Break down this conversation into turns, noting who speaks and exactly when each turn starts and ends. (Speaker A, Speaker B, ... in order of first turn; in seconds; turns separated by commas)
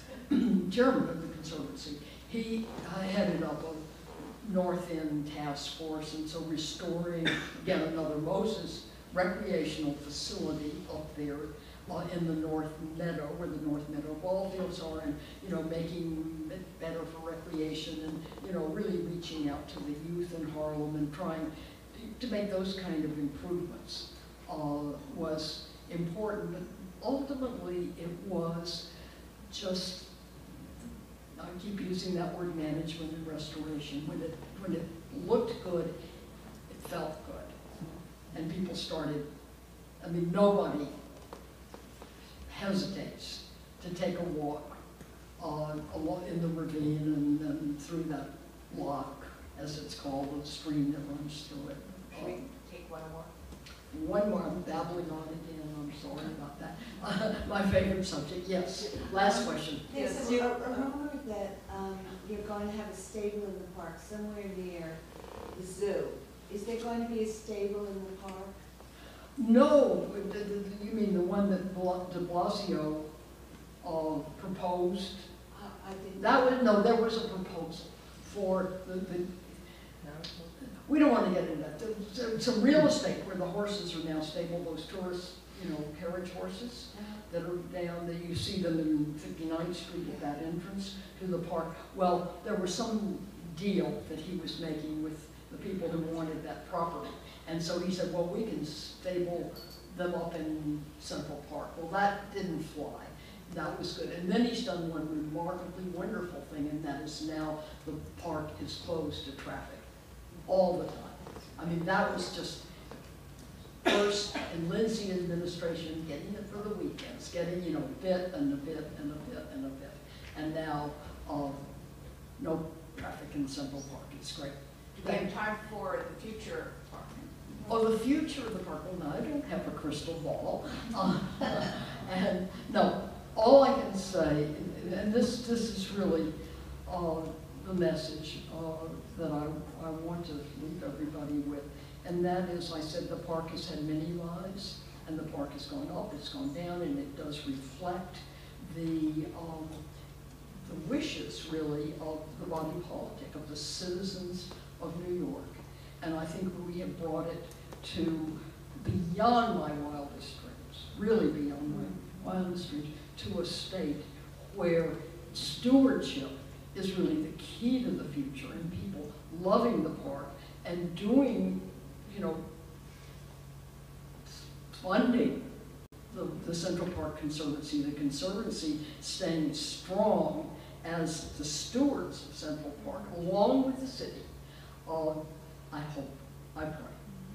Speaker A: 0.3-28.8, Speaker A: 29.5-30.1, Speaker A: 31.4-35.9, Speaker A: 36.7-37.6, Speaker A: 38.3-39.2, Speaker A: 40.0-41.0, Speaker A: 42.5-44.7, Speaker A: 45.4-52.4, Speaker B: 52.1-53.3, Speaker A: 53.9-59.9, Speaker C: 59.2-65.0, Speaker B: 59.9-60.9, Speaker C: 65.5-68.5, Speaker A: 69.4-73.1, Speaker A: 73.8-75.3, Speaker C: 75.5-76.5, Speaker A: 76.2-79.5, Speaker A: 80.6-109.8, Speaker A: 110.5-112.7, Speaker A: 113.8-121.6, Speaker A: 122.4-125.3, Speaker B: 125.0-127.3, Speaker A: 127.7-136.3, Speaker A: 136.9-149.8, Speaker A: 150.6-172.4, Speaker A: 174.3-175.4, Speaker A: 176.1-184.3, Speaker A: 184.8-187.0